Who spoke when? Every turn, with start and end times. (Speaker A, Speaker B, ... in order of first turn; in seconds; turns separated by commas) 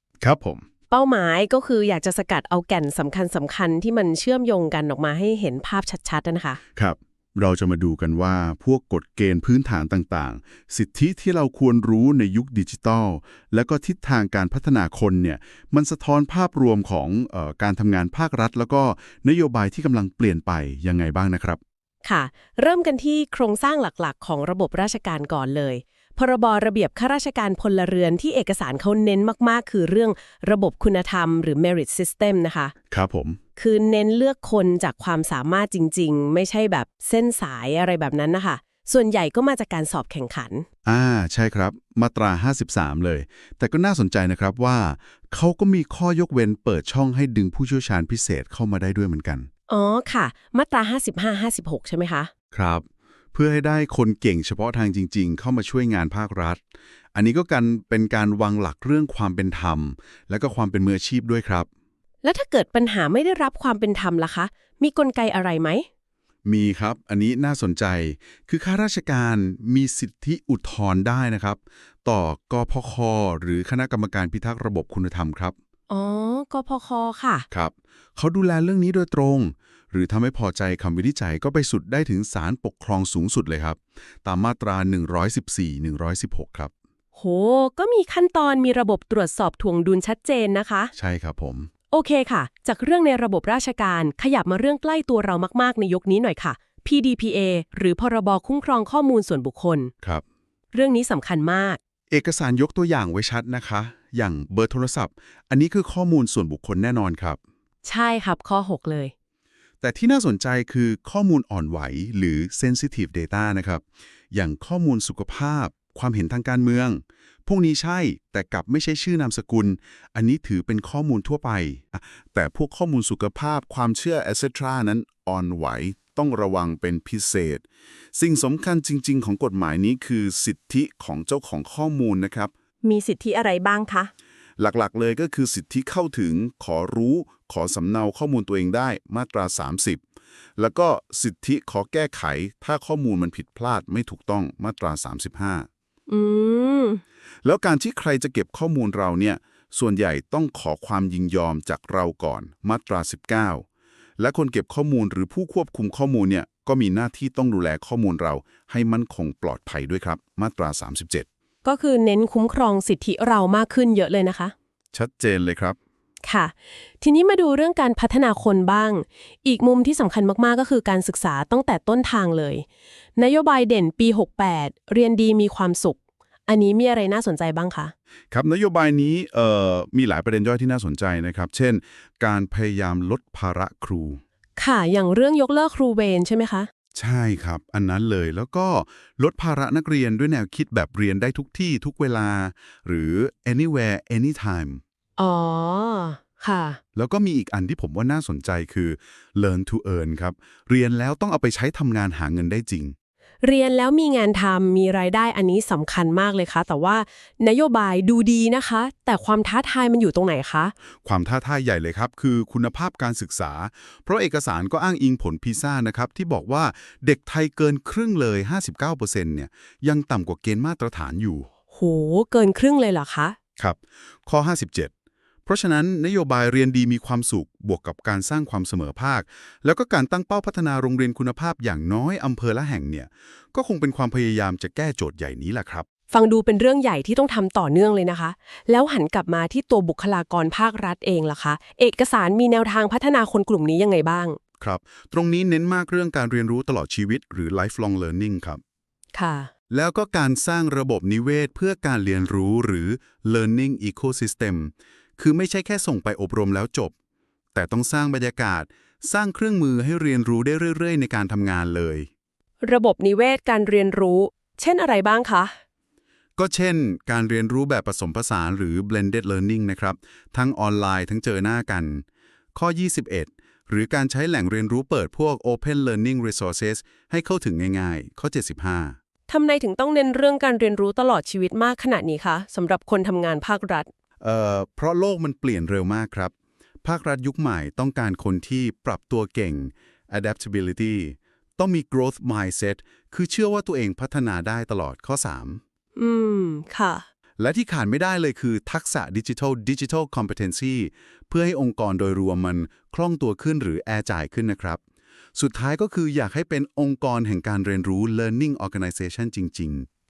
Speaker A: 0.2-0.6, Speaker B: 0.9-6.6, Speaker A: 6.8-21.6, Speaker B: 22.1-32.7, Speaker A: 32.9-33.4, Speaker B: 33.5-40.7, Speaker A: 40.8-49.5, Speaker B: 49.7-52.3, Speaker A: 52.5-56.6, Speaker A: 57.1-61.7, Speaker B: 62.2-65.8, Speaker A: 66.4-75.5, Speaker B: 75.9-77.5, Speaker A: 77.5-86.7, Speaker B: 87.2-90.9, Speaker A: 90.9-91.7, Speaker B: 91.9-99.9, Speaker B: 100.7-101.8, Speaker A: 102.1-107.4, Speaker B: 107.8-109.1, Speaker A: 109.8-132.5, Speaker B: 132.8-134.1, Speaker A: 134.6-140.0, Speaker A: 140.6-145.7, Speaker B: 146.1-147.0, Speaker A: 147.4-153.6, Speaker A: 154.2-161.2, Speaker B: 161.6-164.5, Speaker A: 164.9-165.8, Speaker B: 166.2-172.6, Speaker B: 173.2-177.9, Speaker A: 178.3-184.2, Speaker B: 184.6-186.7, Speaker A: 186.9-194.8, Speaker B: 195.2-196.8, Speaker A: 196.9-202.9, Speaker B: 203.4-210.7, Speaker A: 211.0-221.5, Speaker B: 221.7-223.4, Speaker A: 223.6-224.9, Speaker A: 225.4-235.8, Speaker B: 236.1-244.4, Speaker A: 244.6-248.6, Speaker B: 249.1-249.5, Speaker A: 249.7-256.9, Speaker A: 257.5-262.1, Speaker B: 262.6-265.5, Speaker A: 266.4-279.0, Speaker B: 279.3-283.9, Speaker A: 284.2-286.3, Speaker A: 286.8-295.6, Speaker B: 295.9-297.1, Speaker A: 297.4-304.8, Speaker A: 305.3-309.9